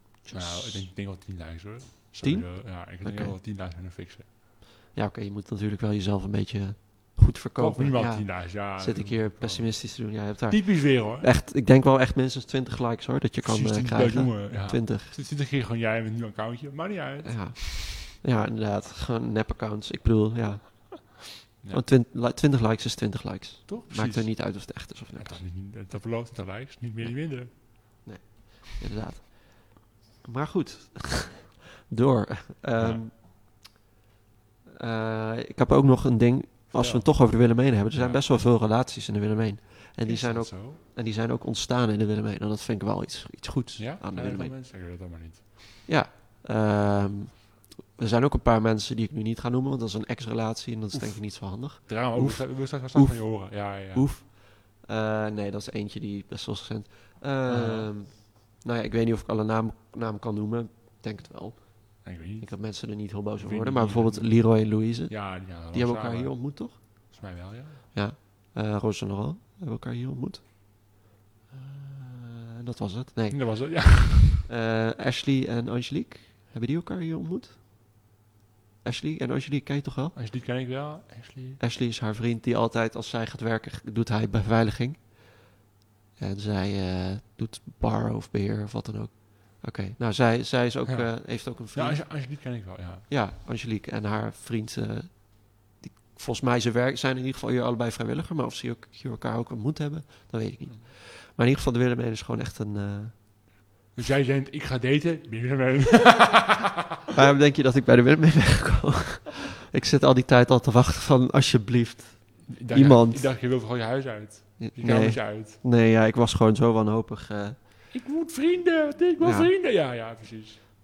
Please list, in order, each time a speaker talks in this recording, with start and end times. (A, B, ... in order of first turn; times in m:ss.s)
0:00.2-0:04.3 A
0:00.3-0:00.9 B
0:02.2-0:03.4 B
0:04.9-0:15.1 B
0:07.6-0:11.3 A
0:13.4-0:17.8 A
0:17.2-0:25.4 B
0:23.7-0:27.5 A
0:27.0-0:33.6 B
0:32.8-0:33.0 A
0:34.8-0:44.6 B
0:36.7-0:38.2 A
0:40.0-0:40.8 A
0:43.8-0:45.6 A
0:45.8-1:06.8 B
0:51.8-0:54.1 A
0:57.5-0:57.9 A
1:02.0-1:07.8 A
1:07.9-1:11.0 B
1:11.5-1:13.7 B
1:13.3-1:14.4 A
1:14.5-1:17.6 B
1:18.8-1:20.2 B
1:20.1-1:21.6 A
1:21.6-1:25.4 B
1:26.2-1:32.4 B
1:30.9-1:33.1 A
1:33.1-1:43.1 B
1:43.9-1:46.7 A
1:47.1-1:53.3 B
1:52.5-1:55.6 A
1:54.6-1:57.6 B
1:57.9-2:00.6 A
1:59.2-1:59.5 B